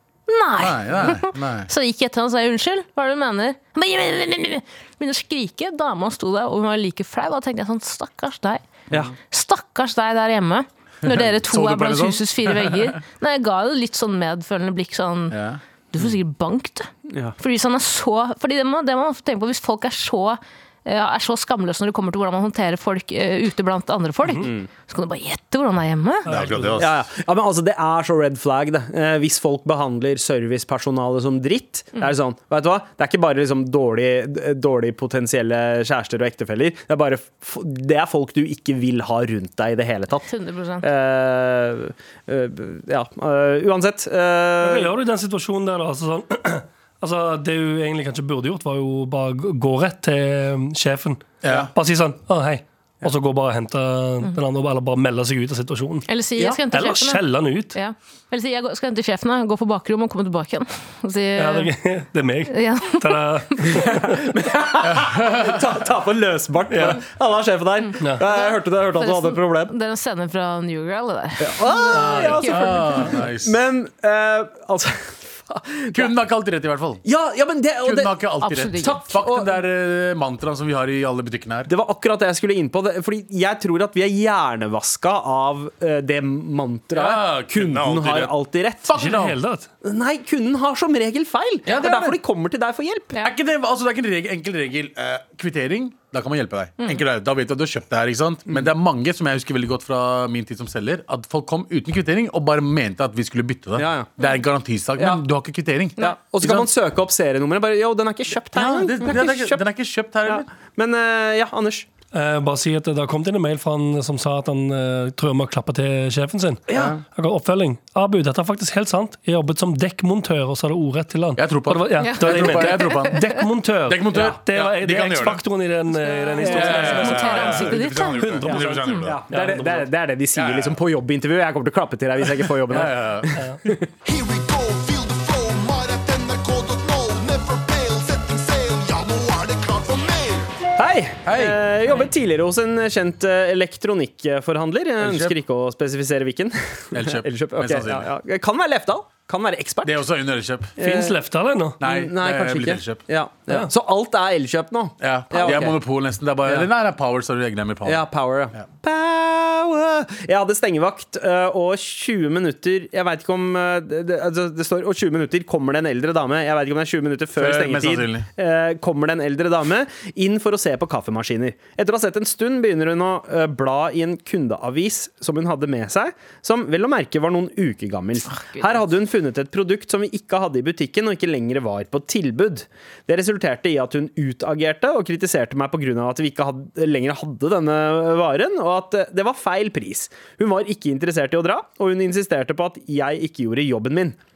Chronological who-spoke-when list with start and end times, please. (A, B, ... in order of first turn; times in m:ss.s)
0:00.3-0:08.6 A
0:00.6-0:01.7 B
0:09.3-0:15.4 A
0:11.0-0:13.0 B
0:15.3-0:15.6 B
0:15.9-0:26.3 A
0:17.1-0:17.4 C
0:24.4-0:24.7 C
0:26.2-0:26.8 D
0:26.3-0:27.0 B
0:26.8-0:40.3 C
0:40.2-0:40.8 A
0:40.8-0:44.9 C
0:44.6-0:56.1 D
0:51.4-0:51.7 B
0:56.1-1:01.7 A
0:56.7-0:57.8 D
1:01.4-1:04.2 D
1:02.5-1:03.8 A
1:03.7-1:09.7 C
1:04.9-1:05.5 B
1:06.7-1:07.0 D
1:08.2-1:13.1 A
1:11.4-1:16.1 C
1:11.9-1:12.3 D
1:12.1-1:13.6 B
1:15.9-1:17.0 B
1:17.0-1:18.2 C
1:17.8-1:21.7 B
1:18.4-1:19.0 A
1:19.0-1:19.5 C
1:21.6-1:29.0 C
1:26.9-1:29.4 B
1:28.9-1:29.7 D
1:29.8-1:33.1 C
1:31.6-1:32.2 B
1:33.2-1:46.7 B
1:43.8-1:44.1 C
1:46.0-1:49.6 C
1:48.5-1:50.4 B
1:50.2-1:51.9 C
1:52.1-2:09.9 D
1:56.7-1:57.0 C
2:01.4-2:03.3 B
2:02.0-2:03.2 A
2:03.8-2:05.4 B
2:06.0-2:08.3 A
2:06.4-2:09.2 B
2:06.4-2:07.1 C
2:08.4-2:13.8 C
2:10.3-2:10.8 B
2:12.7-2:13.3 B
2:14.0-2:20.5 E
2:20.8-2:30.0 C
2:21.2-2:21.6 B
2:25.0-2:25.4 B
2:26.9-2:28.1 B
2:29.8-2:30.8 B
2:30.8-2:31.2 C
2:30.8-2:31.8 D
2:31.8-2:33.0 B
2:31.8-2:35.8 C
2:35.0-2:38.6 B
2:37.8-3:14.2 C
2:47.3-2:48.3 B